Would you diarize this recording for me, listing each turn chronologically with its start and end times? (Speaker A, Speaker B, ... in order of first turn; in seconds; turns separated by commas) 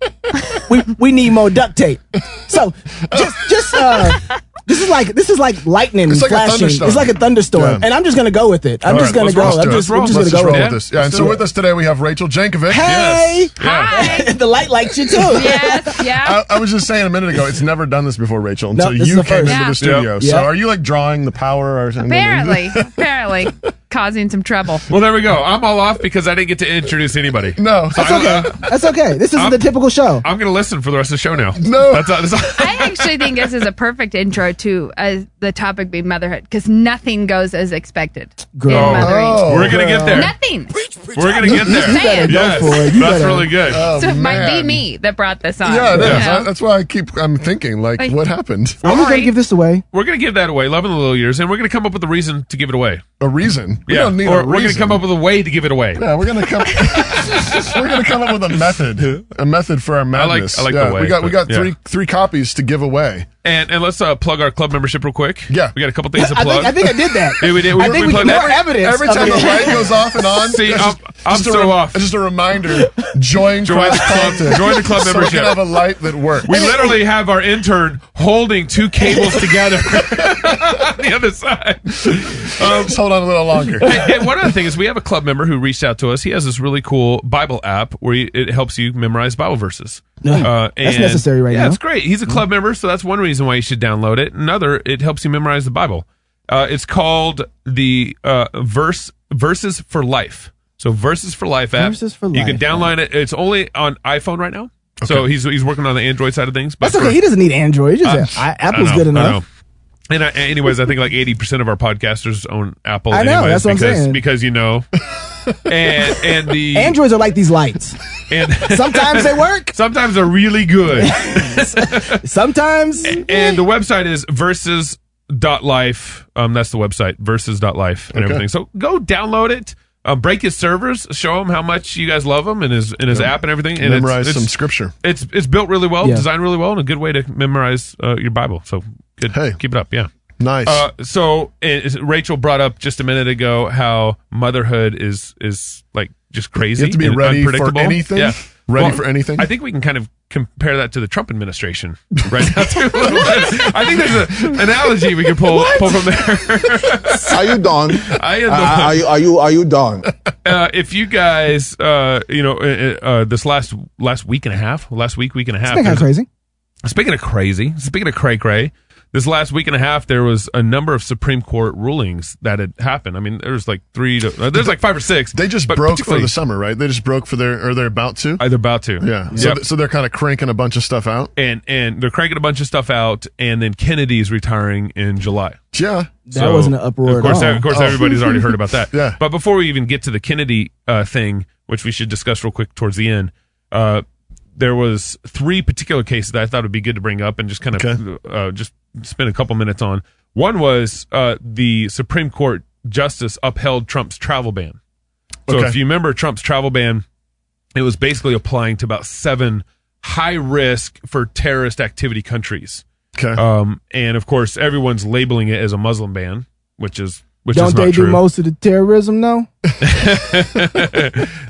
Speaker A: 0.6-11.4, Speaker B: 3.1-4.1, Speaker B: 6.1-7.9, Speaker C: 8.8-11.3, Speaker B: 8.9-13.2, Speaker A: 12.7-15.9, Speaker C: 12.8-14.0, Speaker D: 13.6-14.4, Speaker D: 15.2-16.5, Speaker B: 16.0-23.0, Speaker A: 18.7-19.7, Speaker D: 19.4-19.8, Speaker C: 19.8-20.1, Speaker A: 20.2-20.5, Speaker D: 22.0-24.9, Speaker C: 24.9-28.7, Speaker B: 27.6-28.4, Speaker A: 28.0-30.2, Speaker C: 29.3-29.7, Speaker C: 30.2-33.5, Speaker B: 31.6-32.4, Speaker D: 32.6-43.0, Speaker A: 38.5-39.1, Speaker C: 38.7-40.4, Speaker B: 39.0-40.3, Speaker C: 41.1-43.9, Speaker A: 41.4-43.5, Speaker B: 43.6-44.8, Speaker D: 43.8-46.5, Speaker B: 45.6-48.8, Speaker C: 46.0-46.3, Speaker D: 48.8-49.3, Speaker A: 48.8-49.8, Speaker C: 49.9-53.0, Speaker B: 53.2-55.0, Speaker C: 53.9-56.1, Speaker B: 56.0-63.3, Speaker C: 56.9-57.8, Speaker C: 59.0-59.3, Speaker C: 60.1-61.7, Speaker C: 63.4-69.8, Speaker B: 65.5-65.7, Speaker A: 66.2-69.9, Speaker B: 67.4-76.7, Speaker C: 70.4-72.0, Speaker C: 73.6-75.7, Speaker C: 76.4-83.0, Speaker B: 80.1-80.4, Speaker B: 82.6-84.0, Speaker C: 83.8-107.2, Speaker A: 90.2-91.8, Speaker A: 101.8-102.9, Speaker B: 105.0-105.3, Speaker A: 106.8-109.4, Speaker C: 108.0-109.4, Speaker C: 110.1-114.9, Speaker A: 113.1-114.2, Speaker C: 115.5-117.0, Speaker A: 116.7-118.0, Speaker C: 118.3-122.2, Speaker A: 118.6-119.7, Speaker A: 121.0-123.2, Speaker C: 123.0-134.5, Speaker B: 128.1-128.4, Speaker B: 133.1-134.9, Speaker C: 135.0-140.1, Speaker B: 139.3-139.6, Speaker B: 140.4-140.8, Speaker C: 140.6-159.1, Speaker B: 146.8-149.5, Speaker B: 153.1-153.3, Speaker E: 157.3-160.1, Speaker C: 160.4-166.1, Speaker A: 165.7-166.3, Speaker C: 166.8-176.3, Speaker B: 175.3-178.4, Speaker C: 178.4-179.6, Speaker B: 179.0-181.3, Speaker C: 181.4-185.6, Speaker B: 185.7-186.1, Speaker A: 186.3-187.7, Speaker C: 186.3-194.0, Speaker B: 187.7-188.3, Speaker B: 188.9-189.2, Speaker C: 194.6-204.8, Speaker B: 197.7-198.0, Speaker B: 205.5-205.8, Speaker C: 205.5-207.0, Speaker C: 207.7-212.8, Speaker B: 213.2-213.4, Speaker C: 213.3-218.2, Speaker A: 217.5-219.5, Speaker C: 219.8-221.3